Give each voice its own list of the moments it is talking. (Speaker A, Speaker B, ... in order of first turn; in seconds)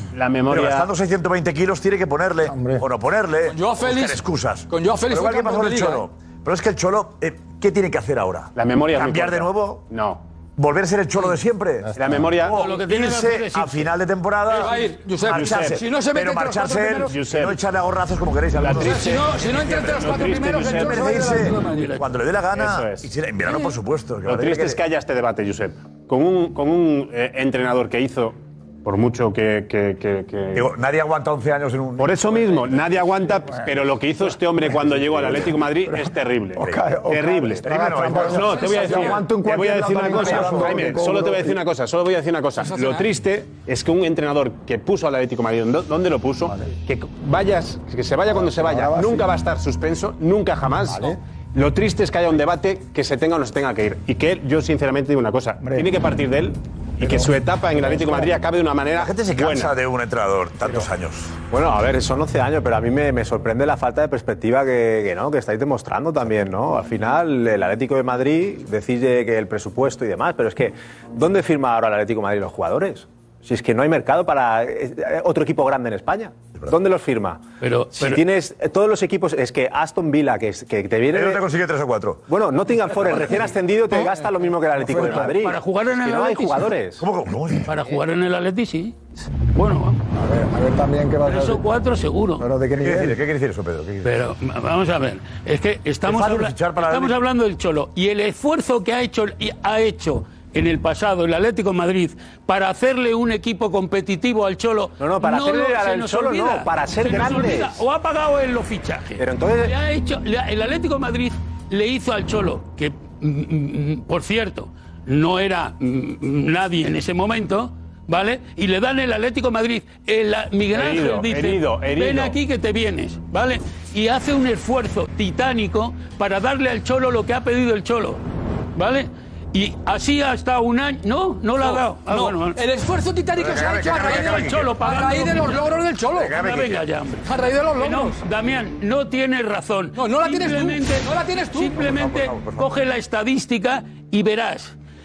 Speaker A: 0.1-0.9, 8.6-10.2, 11.9-12.6, 15.3-15.8, 17.1-17.6, 18.6-21.1, 22.5-23.1, 24.2-30.7, 32.0-59.7, 120.7-122.3
Speaker B: 0.5-9.8, 10.6-24.8, 30.5-32.9, 36.6-36.9, 37.6-41.0, 58.9-61.4, 81.1-82.2, 83.0-83.3, 87.0-87.7, 92.8-94.1, 96.0-97.2, 133.5-134.7, 136.4-136.7, 141.7-142.8
Speaker C: 2.5-2.9, 11.8-12.3, 33.7-34.0, 34.7-41.6, 48.3-49.3, 55.6-55.9, 57.0-58.4, 84.8-85.4, 90.1-91.6, 92.4-93.2
Speaker D: 3.5-6.0, 14.5-17.3, 18.7-22.0, 23.4-23.7, 38.4-39.2, 42.6-43.1, 131.6-136.5, 137.2-138.2, 139.9-141.9
Speaker E: 12.5-13.9, 21.6-22.0, 77.6-78.2, 85.0-86.7, 87.7-88.9, 89.5-90.0, 91.2-92.5, 94.0-128.2, 128.8-132.6, 133.6-137.2, 137.8-144.7
Speaker F: 61.5-77.4, 77.9-81.4, 82.3-87.0, 105.0-107.8, 109.2-109.8